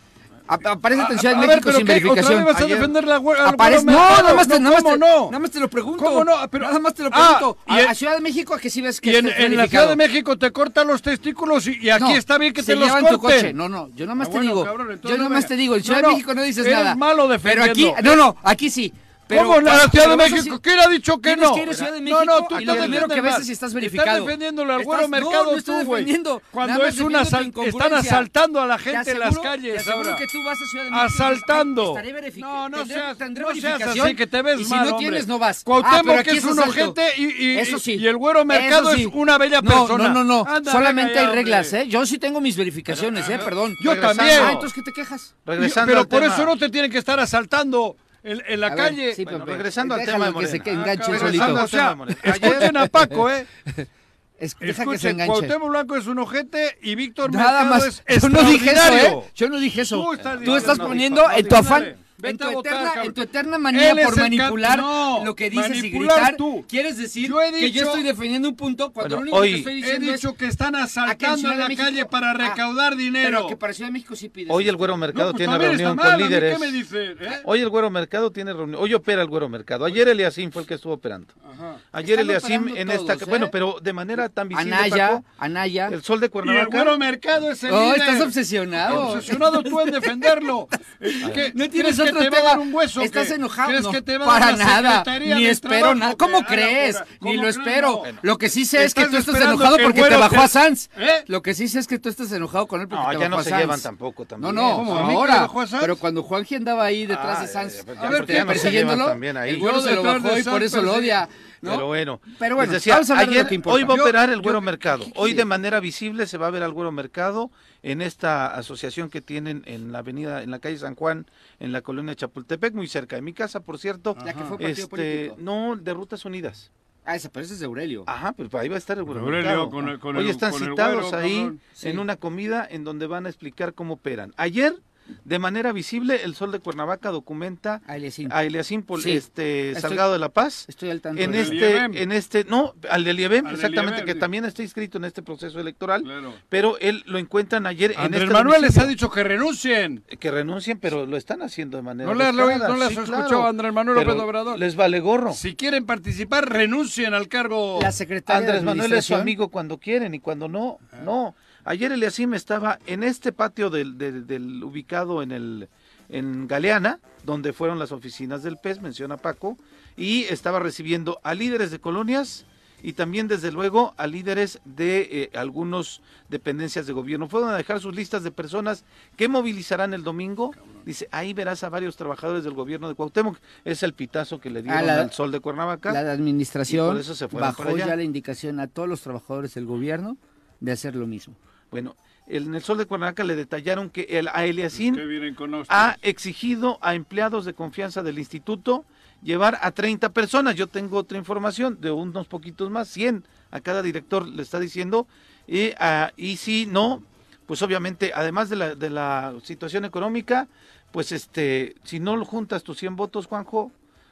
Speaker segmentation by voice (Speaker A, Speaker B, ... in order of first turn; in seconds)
Speaker A: 0.5-2.5, 3.4-10.0, 11.9-20.6, 21.2-28.3, 28.9-37.0, 37.5-45.3, 48.7-51.6, 52.4-53.9, 54.4-55.5, 57.2-70.3, 71.0-72.6, 73.2-75.0, 82.0-83.5, 84.5-86.0, 87.7-90.5, 91.1-103.8, 104.4-114.0, 114.9-115.4, 124.2-125.4, 127.0-128.1, 131.8-132.0, 137.8-138.3, 138.9-140.1, 140.7-141.6, 157.8-159.3, 184.7-185.1, 185.9-191.3
Speaker B: 0.9-5.3, 6.0-7.9, 9.0-13.5, 14.2-18.2, 19.3-30.2, 30.9-41.8, 42.9-44.7, 45.6-49.2, 50.7-53.5, 54.6-66.7, 67.2-68.0, 69.8-73.6, 75.1-77.4, 81.5-81.8, 86.4-98.1, 98.7-101.2, 104.6-106.0, 108.0-108.9, 109.5-111.2, 113.8-114.6, 124.2-124.5, 129.1-131.6, 141.3-142.0, 143.4-144.3, 146.0-146.4, 147.9-150.0, 152.0-154.6, 155.3-157.9, 194.8-195.9
Speaker C: 2.5-2.9, 22.5-23.1, 43.8-44.6, 45.5-46.5, 49.2-52.8, 60.2-61.9, 69.0-69.7, 74.5-76.8, 77.4-81.3, 81.9-85.2, 85.9-87.0, 98.0-98.3, 102.9-105.2, 107.1-109.7, 111.6-126.7, 128.1-148.9, 150.1-155.4, 158.3-186.0, 186.7-187.9, 191.7-195.0, 195.7-213.7